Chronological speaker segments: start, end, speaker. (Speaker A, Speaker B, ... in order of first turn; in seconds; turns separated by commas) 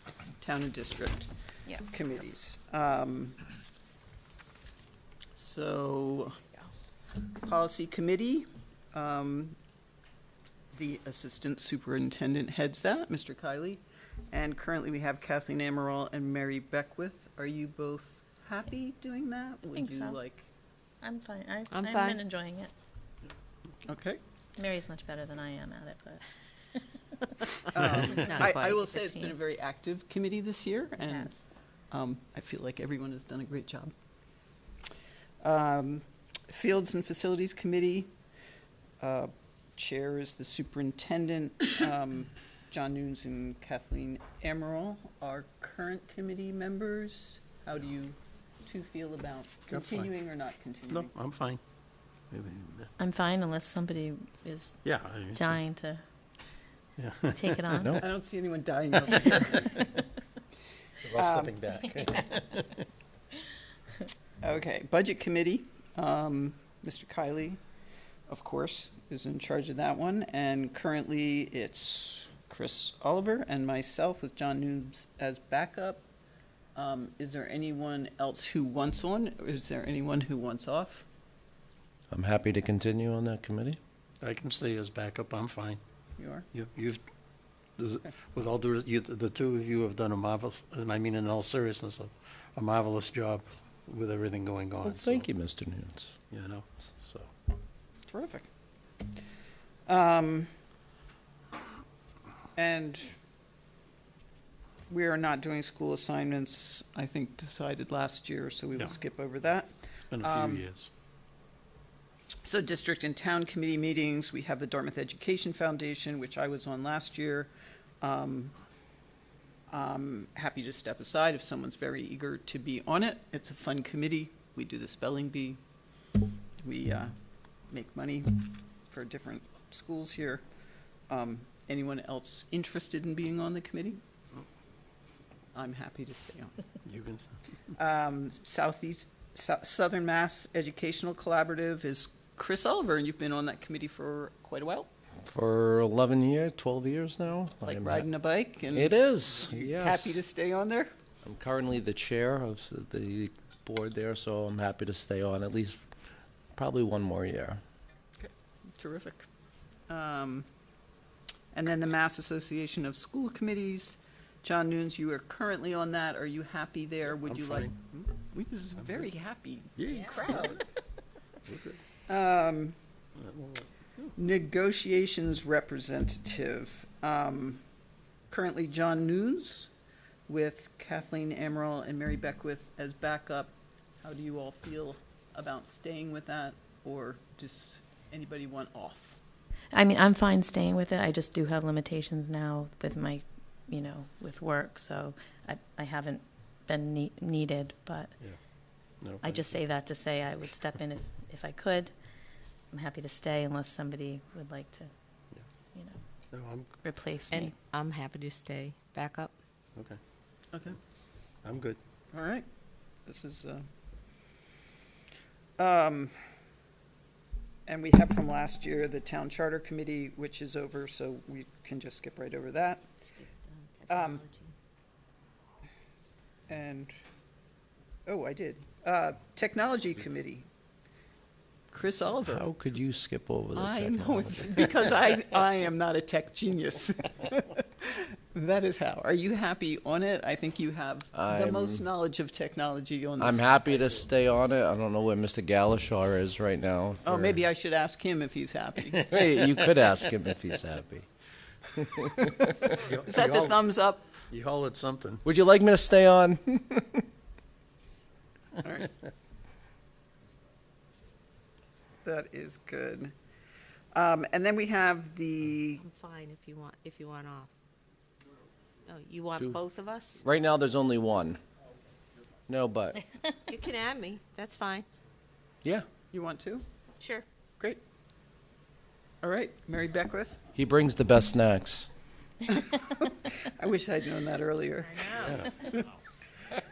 Speaker A: 0.4-3.4, Speaker A: 5.3-6.4, Speaker A: 7.3-9.6, Speaker A: 10.7-20.5, Speaker B: 19.7-20.2, Speaker B: 21.0-22.7, Speaker C: 21.7-22.2, Speaker A: 23.8-24.2, Speaker B: 24.6-29.4, Speaker A: 27.7-31.4, Speaker C: 28.2-28.8, Speaker B: 31.0-31.3, Speaker A: 31.9-33.9, Speaker A: 35.4-38.1, Speaker A: 39.0-51.1, Speaker D: 49.7-50.1, Speaker D: 50.9-51.6, Speaker D: 52.3-52.9, Speaker B: 53.0-56.0, Speaker D: 54.8-55.6, Speaker D: 57.0-57.8, Speaker B: 57.3-58.0, Speaker A: 58.0-59.9, Speaker D: 61.0-62.9, Speaker A: 61.1-61.6, Speaker A: 64.4-67.6, Speaker A: 68.3-76.0, Speaker A: 76.8-81.1, Speaker E: 82.1-83.8, Speaker D: 84.2-85.8, Speaker A: 86.2-86.5, Speaker D: 86.5-87.0, Speaker D: 87.8-95.3, Speaker E: 94.8-96.2, Speaker D: 96.3-97.3, Speaker A: 98.1-98.5, Speaker A: 99.9-100.5, Speaker A: 102.6-103.2, Speaker A: 104.9-110.7, Speaker D: 110.1-110.9, Speaker A: 112.4-118.5, Speaker A: 119.7-125.6, Speaker A: 126.6-127.2, Speaker A: 127.7-130.4, Speaker A: 131.1-134.0, Speaker A: 135.6-136.6, Speaker D: 136.8-137.4, Speaker A: 137.8-144.9, Speaker E: 145.3-148.1, Speaker A: 147.6-150.9, Speaker E: 148.7-150.2, Speaker E: 151.2-155.8, Speaker E: 156.6-157.6, Speaker A: 158.2-159.3, Speaker A: 159.9-160.5, Speaker A: 161.5-170.6, Speaker D: 167.2-167.7, Speaker D: 169.8-170.6, Speaker D: 171.5-171.8, Speaker A: 172.0-172.8, Speaker D: 173.2-174.1, Speaker A: 174.2-177.6, Speaker A: 178.3-179.7, Speaker A: 180.3-189.2, Speaker B: 189.7-198.5, Speaker D: 199.0-199.6, Speaker B: 199.2-204.9, Speaker B: 205.7-207.6, Speaker D: 206.3-206.7, Speaker C: 207.3-209.3, Speaker D: 211.4-211.8, Speaker A: 212.1-212.4, Speaker A: 213.1-213.7, Speaker A: 215.6-216.2, Speaker A: 217.7-222.8, Speaker C: 223.2-224.5, Speaker A: 223.9-224.2, Speaker A: 226.5-226.9, Speaker A: 228.1-230.5, Speaker A: 231.7-232.5, Speaker E: 232.2-234.9, Speaker A: 233.6-243.5, Speaker E: 241.1-241.9, Speaker E: 243.2-247.4, Speaker A: 247.0-249.2, Speaker E: 248.9-251.1, Speaker E: 251.7-252.7, Speaker D: 252.8-253.6, Speaker A: 253.0-254.1, Speaker D: 254.3-255.2, Speaker E: 255.2-257.1, Speaker A: 258.6-258.9, Speaker A: 262.0-263.1, Speaker A: 263.9-265.8, Speaker C: 265.8-267.5, Speaker C: 268.9-270.2, Speaker E: 270.2-271.4, Speaker E: 272.5-273.0, Speaker C: 273.5-274.9, Speaker A: 276.1-276.6, Speaker A: 279.2-280.4, Speaker E: 280.6-281.9, Speaker A: 282.5-285.9